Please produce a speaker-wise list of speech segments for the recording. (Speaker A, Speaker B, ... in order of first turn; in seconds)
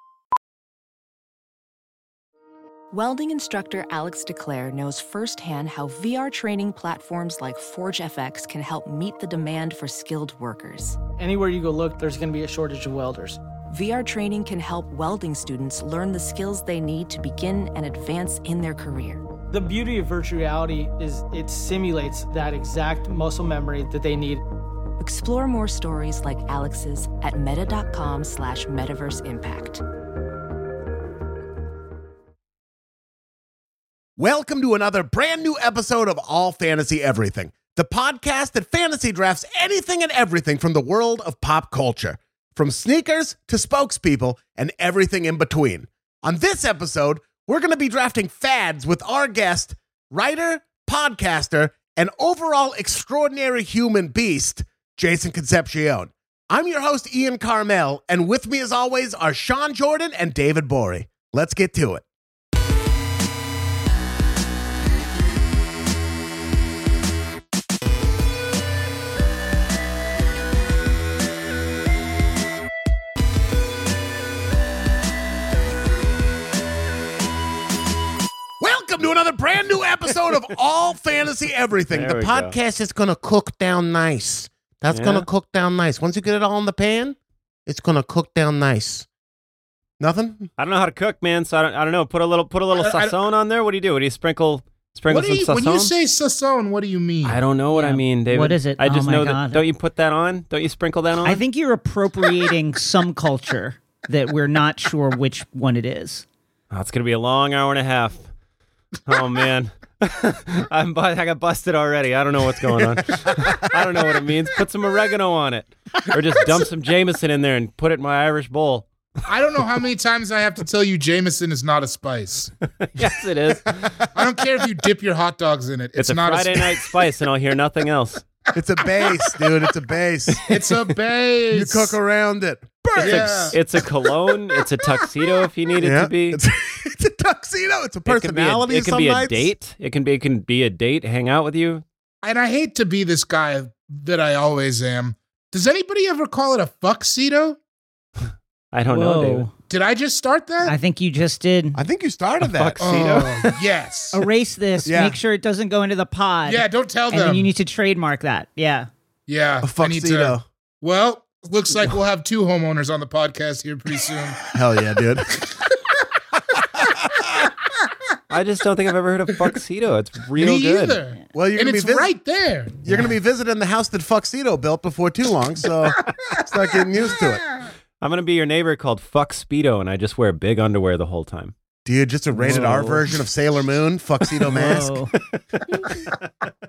Speaker A: 2.9-11.0, 13.7-19.2, 25.0-29.8
Speaker B: 11.2-13.4, 19.5-24.4
Speaker C: 34.2-62.0, 78.6-89.1, 90.0-90.5, 128.5-130.4, 131.5-139.5, 151.7-152.7, 154.8-155.2, 159.6-160.4, 164.5-165.3, 166.7-167.4, 171.3-172.1, 172.8-177.4, 181.8-184.9
Speaker D: 81.9-82.5, 84.9-85.3, 90.6-95.9, 97.2-101.4, 106.7-108.3, 109.0-118.9, 122.8-124.0, 126.0-128.2, 133.0-136.4, 138.1-141.8, 148.7-149.4, 152.4-153.6, 168.3-171.0, 178.0-181.5, 184.5-186.0
Speaker E: 92.8-93.1, 95.1-97.4, 119.2-122.5, 124.1-126.9, 130.4-131.9, 133.0-133.6, 142.2-147.6, 149.7-150.7, 152.8-154.2, 156.4-157.5, 159.3-164.4, 170.4-172.8
Speaker F: 97.7-99.6, 101.2-106.2, 148.9-149.5, 150.6-151.8, 154.1-158.9, 182.4-183.0, 184.5-185.1